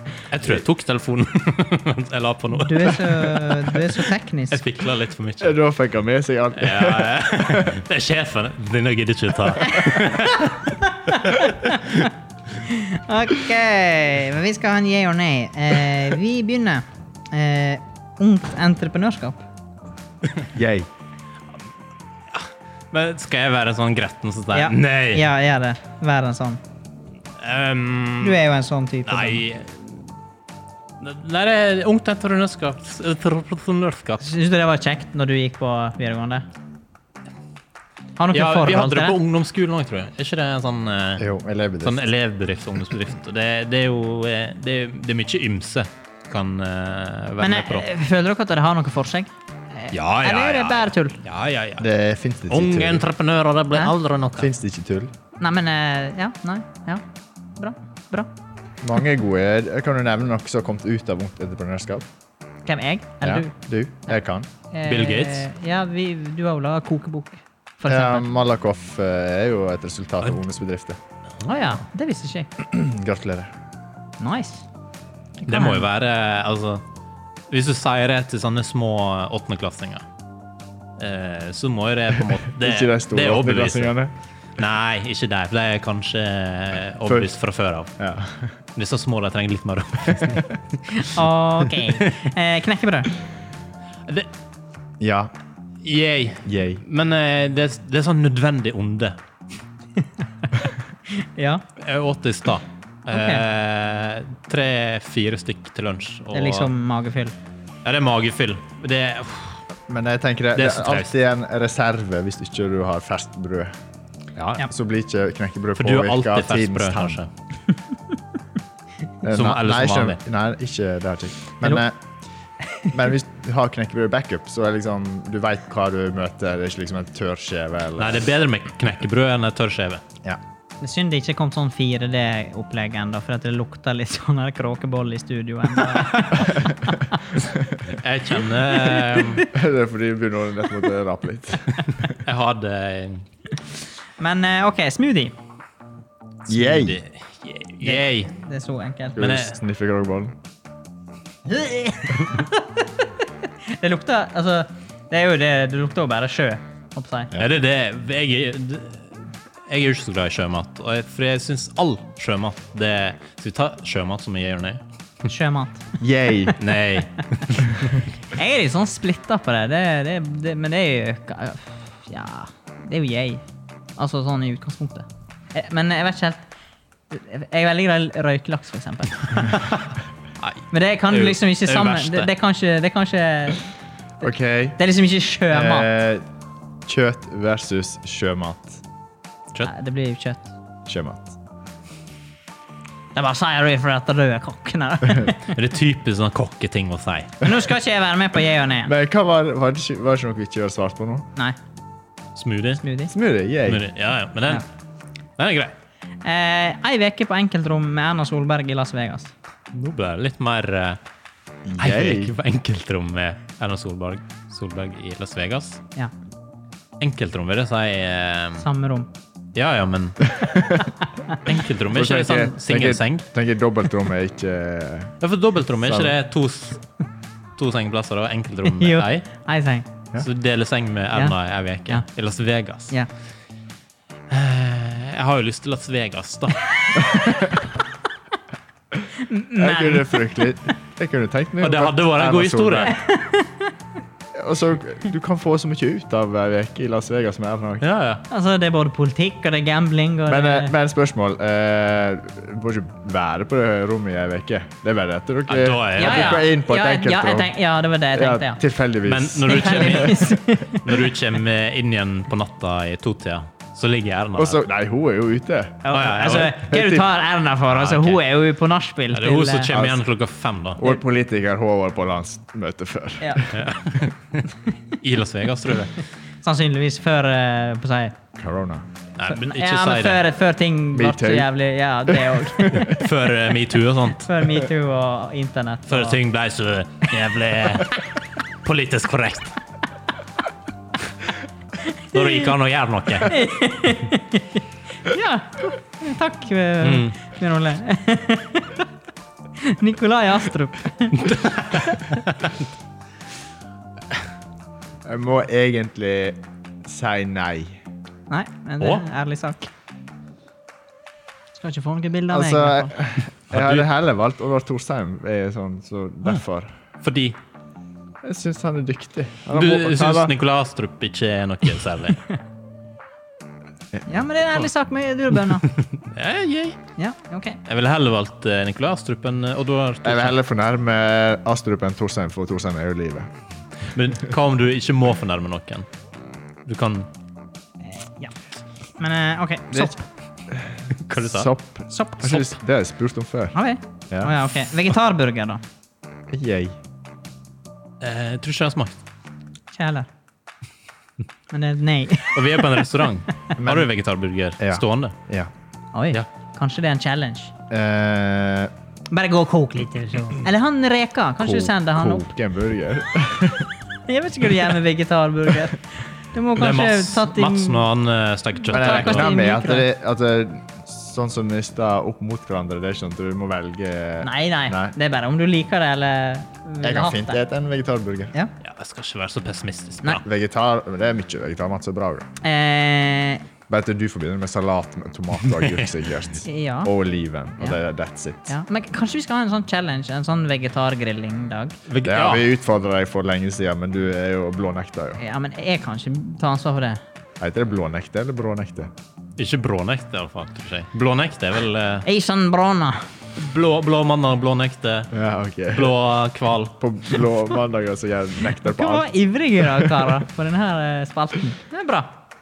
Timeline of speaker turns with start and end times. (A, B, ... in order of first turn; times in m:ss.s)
0:00.3-0:05.6 A
0:02.5-0:04.6 B
0:05.4-0:07.8 C
0:06.6-0:10.6 A
0:09.6-0:19.4 B
0:20.5-0:20.9 C
0:22.3-0:25.2 A
0:24.5-0:26.6 B
0:27.4-0:28.4 A
0:28.2-0:29.4 B
0:29.1-0:30.1 A
0:31.0-0:34.2 A
0:34.2-0:36.4 B
0:38.2-0:39.2 B
0:38.3-0:41.3 A
0:41.2-0:42.0 C
0:41.8-0:47.9 A
0:47.4-0:51.2 B
0:49.9-0:51.9 A
0:51.8-0:53.0 C
0:52.5-0:54.5 A
0:54.4-0:55.1 C
0:55.4-0:57.0 B
0:57.6-0:58.3 B
0:58.8-1:02.1 C
1:02.6-1:03.5 B
1:03.2-1:04.5 C
1:04.7-1:08.3 B
1:04.9-1:05.5 A
1:07.9-1:11.0 C
1:11.4-1:12.5 B
1:12.6-1:13.5 C
1:14.2-1:14.6 B
1:15.4-1:16.8 A
1:15.5-1:15.8 B
1:17.5-1:20.0 A
1:21.0-1:23.9 A
1:22.6-1:24.1 C
1:24.6-1:27.9 A
1:28.0-1:28.5 C
1:28.8-1:30.6 A
1:30.9-1:33.1 B
1:35.0-1:35.3 C
1:35.8-1:39.2 A
1:36.4-1:36.8 C
1:40.4-1:41.6 B
1:41.8-1:46.7 A
1:43.1-1:43.4 B
1:46.3-1:47.4 B
1:47.8-1:49.6 A
1:49.9-1:53.8 C
1:50.6-1:51.1 A
1:54.4-1:54.6 A
1:54.7-1:57.2 C
1:55.8-1:57.3 A
1:59.2-2:02.0 C
1:59.2-2:00.2 A
2:02.8-2:08.3 C
2:08.0-2:10.0 A
2:10.8-2:17.2 B
2:15.9-2:16.2 A
2:17.5-2:17.8 C
2:17.9-2:19.4 A
2:19.4-2:21.8 C
2:21.8-2:23.2 A
2:24.2-2:25.3 B
2:26.5-2:27.0 C
2:26.5-2:28.3 A
2:27.8-2:29.2 B
2:29.2-2:30.4 C
2:29.2-2:29.6 A
2:31.4-2:32.8 B
2:33.7-2:37.3 B
2:37.4-2:44.8 A
2:45.2-2:45.9 B
2:46.0-2:46.6 C
2:46.6-2:48.0 A
2:48.3-2:53.4 B
2:54.0-2:56.4 B
2:57.1-2:59.6 B
2:59.5-2:59.9 A
3:00.4-3:02.3 A
3:00.7-3:03.7 B
3:04.2-3:04.8 C
3:04.8-3:05.9 B
3:05.5-3:06.2 C
3:06.9-3:08.8 C
3:09.6-3:10.5 B
3:10.9-3:11.3 C
3:13.1-3:15.5 B
3:15.4-3:17.4 A
3:17.4-3:18.9 B
3:18.8-3:21.3 C
3:22.4-3:22.8 A
3:22.8-3:23.1 B
3:23.1-3:23.9 C
3:23.6-3:24.6 A
3:25.4-3:25.7 A
3:26.2-3:29.3 B
3:29.7-3:31.0 A
3:31.6-3:32.3 C
3:31.8-3:35.8 A
3:37.0-3:38.6 A
3:38.6-3:39.1 B
3:39.6-3:40.3 A
3:40.3-3:40.9 C
3:41.4-3:43.2 A
3:41.9-3:45.2 C
3:45.2-3:46.8 A
3:45.8-3:46.2 C
3:47.6-3:49.2 A
3:48.6-3:49.9 B
3:50.2-3:52.9 A
3:54.3-3:57.0 A
3:57.0-3:57.5 C
3:59.2-4:00.4 B
3:59.6-4:02.9 C
4:01.6-4:02.9 A
4:02.9-4:03.6 B
4:04.3-4:07.8 C
4:07.8-4:08.2 A
4:08.3-4:10.7 B
4:10.3-4:17.5 C
4:15.5-4:16.4 A
4:16.0-4:18.6 B
4:18.1-4:20.3 C
4:19.0-4:24.6 A
4:19.4-4:21.1 B
4:24.4-4:25.8 C
4:25.8-4:29.7 B
4:25.9-4:26.6 A
4:26.6-4:27.1 C
4:27.7-4:28.2 A
4:29.1-4:30.9 A
4:29.7-4:30.0 C
4:30.8-4:33.6 C
4:33.2-4:33.5 B
4:33.5-4:34.5 A
4:35.0-4:36.0 A
4:36.4-4:38.2 B
4:38.4-4:38.9 C
4:39.2-4:40.2 A
4:39.3-4:43.0 B
4:40.9-4:41.5 C
4:42.1-4:43.0 C
4:42.8-4:44.3 A
4:44.2-4:46.2 B
4:45.9-4:48.0 A
4:48.6-4:49.6 A
4:52.1-4:52.4 B
4:52.1-4:53.4 A
4:53.2-4:58.8 B
4:56.8-4:57.1 A
4:59.6-5:02.2 B
5:01.2-5:02.6 A
5:05.0-5:07.8 C
5:08.3-5:09.7 B
5:08.8-5:09.0 A
5:11.6-5:12.9 B
5:12.3-5:16.7 C
5:13.5-5:13.9 A
5:17.0-5:17.4 A
5:18.2-5:20.3 C
5:19.5-5:22.3 A
5:24.1-5:25.7 B
5:25.5-5:26.8 A
5:27.0-5:27.6 B
5:27.6-5:30.4 A
5:30.0-5:33.3 C
5:33.9-5:35.9 A
5:36.6-5:37.1 A
5:37.8-5:38.3 B
5:39.0-5:40.0 B
5:40.5-5:43.6 C
5:41.0-5:41.5 A
5:41.9-5:42.4 B
5:43.5-5:45.6 B
5:44.1-5:44.4 C
5:46.3-5:46.8 C
5:48.0-5:49.0 A
5:49.7-5:50.1 B
5:51.5-5:52.8 B
5:52.3-5:55.2 A
5:53.6-5:53.9 C
5:54.6-5:55.5 C
5:55.9-5:57.5 B
5:57.7-5:58.7 C
5:59.1-6:02.3 B
6:01.4-6:03.7 C
6:04.1-6:07.9 B
6:06.6-6:09.3 A
6:08.7-6:09.9 B
6:08.7-6:14.9 C
6:14.2-6:17.4 B
6:16.8-6:18.4 C
6:18.6-6:20.2 A
6:20.2-6:22.3 C
6:22.4-6:23.4 B
6:23.7-6:28.5 C
6:25.4-6:25.9 A
6:26.4-6:26.9 B
6:28.5-6:31.8 B
6:31.9-6:32.5 A
6:32.0-6:35.2 C
6:35.2-6:37.0 B
6:37.4-6:38.9 C
6:39.4-6:42.1 A
6:42.0-6:43.0 B
6:43.4-6:45.1 A
6:45.1-6:46.0 C
6:45.7-6:47.2 A
6:46.8-6:49.1 C
6:48.6-6:52.2 B
6:49.6-6:50.1 C